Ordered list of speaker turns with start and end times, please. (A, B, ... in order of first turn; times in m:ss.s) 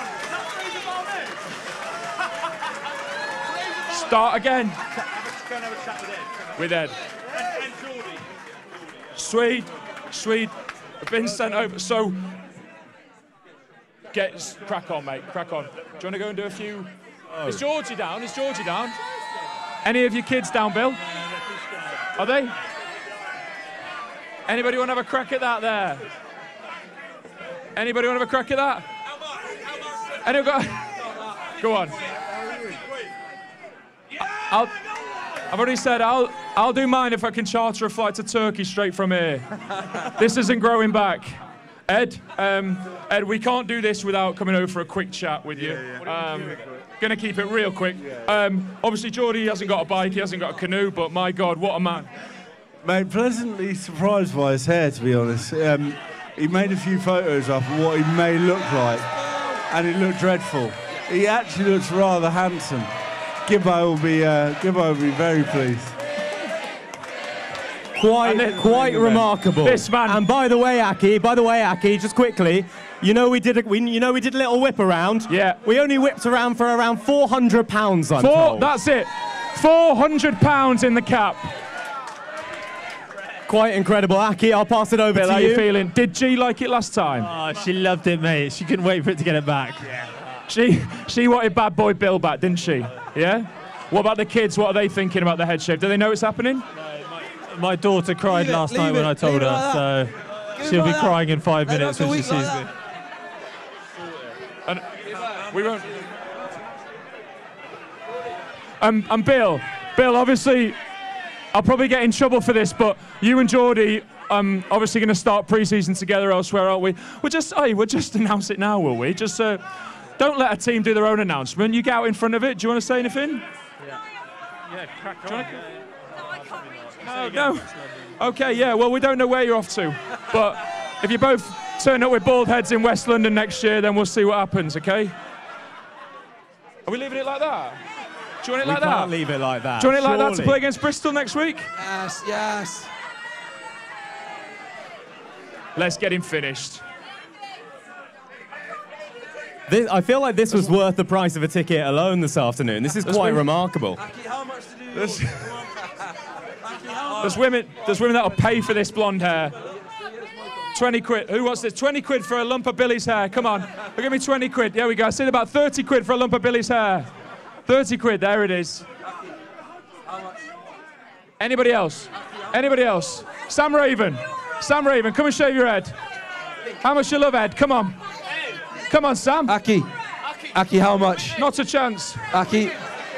0:03.9-0:04.8 A
0:06.6-0:07.0 A
0:09.2-0:12.4 A
0:14.1-0:16.9 A
0:17.3-0:17.6 B
0:17.4-0:19.0 A
0:19.8-0:21.0 A
0:22.2-0:22.6 A
0:24.5-0:26.0 A
0:27.8-0:28.9 A
0:30.2-0:31.0 A
0:31.6-0:32.0 A
0:34.2-0:34.8 A
0:35.5-0:41.4 A
0:41.9-0:52.1 A
0:52.8-0:59.2 C
0:59.7-1:02.9 C
1:03.5-1:06.0 C
1:08.0-1:18.7 B
1:08.2-1:10.2 A
1:15.3-1:15.6 A
1:18.2-1:21.5 A
1:23.5-1:25.6 B
1:25.1-1:27.3 A
1:27.2-1:30.1 D
1:30.5-1:36.7 A
1:37.0-1:42.7 D
1:38.2-1:42.7 E
1:44.7-1:46.0 A
1:48.8-1:50.8 A
1:51.5-1:59.6 A
2:00.2-2:03.5 A
2:04.7-2:08.2 D
2:05.3-2:05.6 A
2:07.0-2:15.1 A
2:16.9-2:17.8 A
2:18.4-2:19.1 A
2:18.6-2:20.6 B
2:19.8-2:21.7 A
2:21.8-2:22.9 E
2:25.8-2:26.8 A
2:29.7-2:34.0 B
2:33.1-2:33.4 E
2:34.0-2:35.8 E
2:35.0-2:35.3 A
2:36.6-2:37.4 E
2:37.2-2:39.5 A
2:40.7-2:47.1 A
2:47.7-2:48.9 A
2:51.4-2:56.0 A
2:56.8-2:58.0 A
2:58.9-2:59.6 A
2:59.5-2:59.9 E
3:00.5-3:01.4 E
3:01.4-3:02.2 A
3:02.3-3:02.8 E